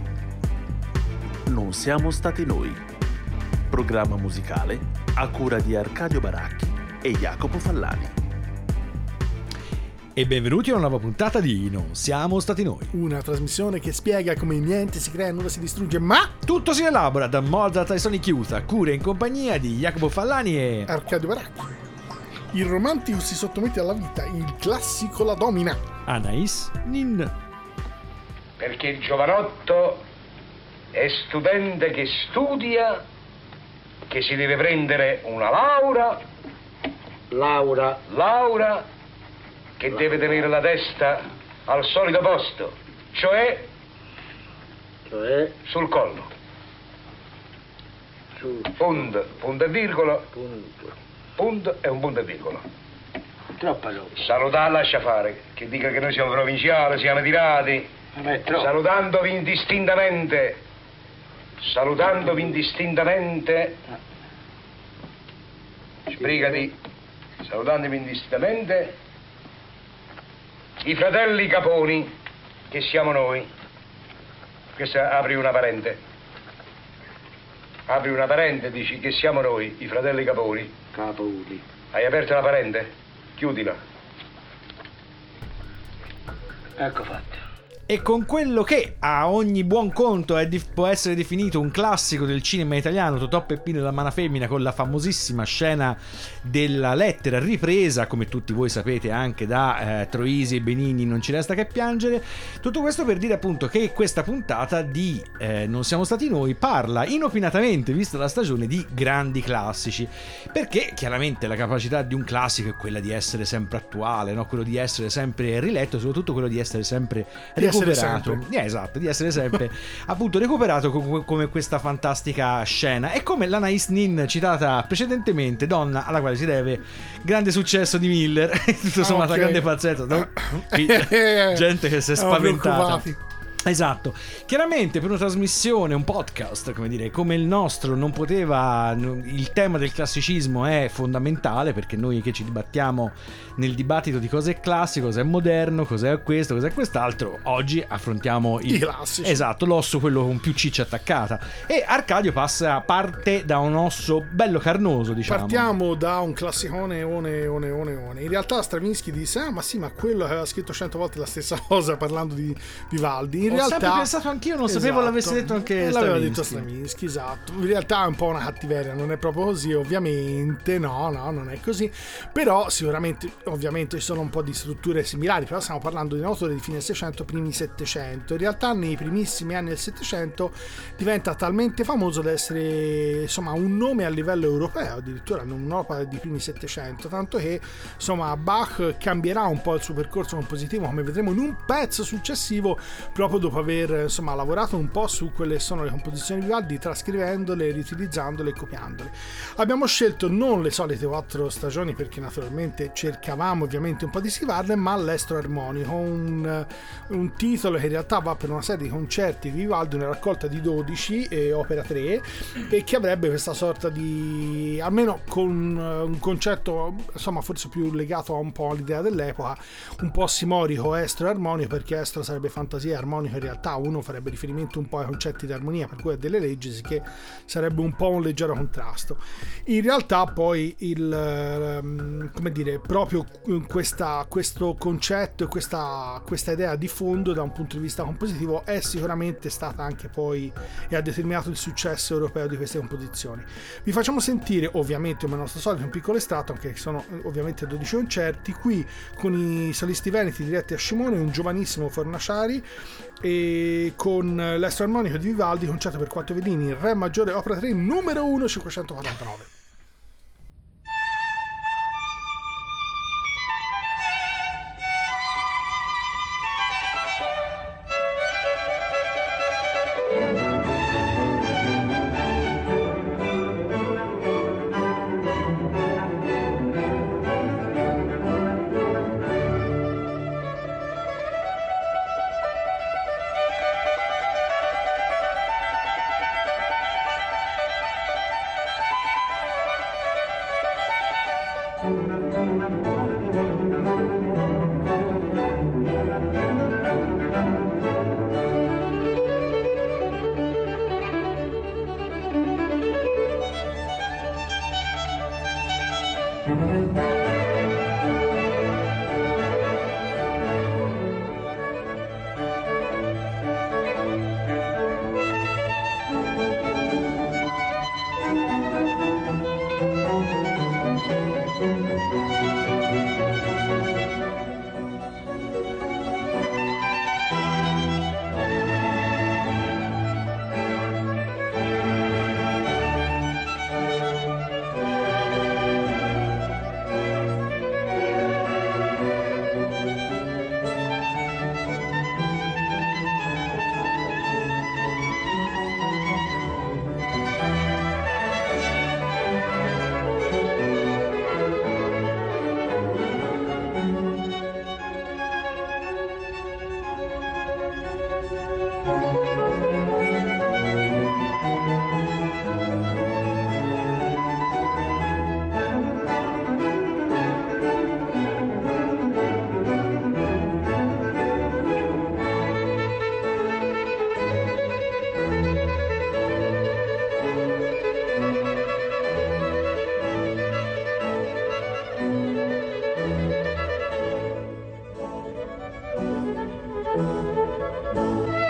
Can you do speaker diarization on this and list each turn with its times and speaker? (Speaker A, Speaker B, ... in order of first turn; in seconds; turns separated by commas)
Speaker A: 1.5-2.8, Speaker A: 3.7-8.1, Speaker B: 10.2-12.9, Speaker C: 12.9-16.4, Speaker B: 16.4-20.9, Speaker C: 20.9-21.7, Speaker C: 22.5-25.8, Speaker B: 26.1-27.3, Speaker D: 28.6-30.0, Speaker D: 30.9-33.0, Speaker D: 34.1-36.2, Speaker E: 37.3-38.0, Speaker D: 38.1-38.9, Speaker D: 39.8-43.7, Speaker E: 45.1-45.5, Speaker D: 45.6-46.3, Speaker E: 48.4-48.7, Speaker D: 48.8-50.3, Speaker E: 50.3-50.9, Speaker D: 51.4-52.6, Speaker E: 53.6-54.1, Speaker D: 54.1-57.9, Speaker E: 58.1-58.7, Speaker D: 58.5-60.6, Speaker D: 61.6-63.8, Speaker D: 66.1-66.7, Speaker D: 67.4-68.9, Speaker D: 70.8-72.1, Speaker D: 72.7-73.5, Speaker D: 74.8-76.0, Speaker D: 77.9-80.7, Speaker E: 80.9-81.6, Speaker D: 81.9-83.8, Speaker E: 86.8-87.4, Speaker B: 87.9-133.1, Speaker C: 117.6-118.4, Speaker C: 129.0-133.2, Speaker B: 133.6-155.7, Speaker C: 148.7-149.4, Speaker C: 155.3-164.1, Speaker B: 163.5-166.7, Speaker C: 164.7-252.7, Speaker C: 253.2-259.5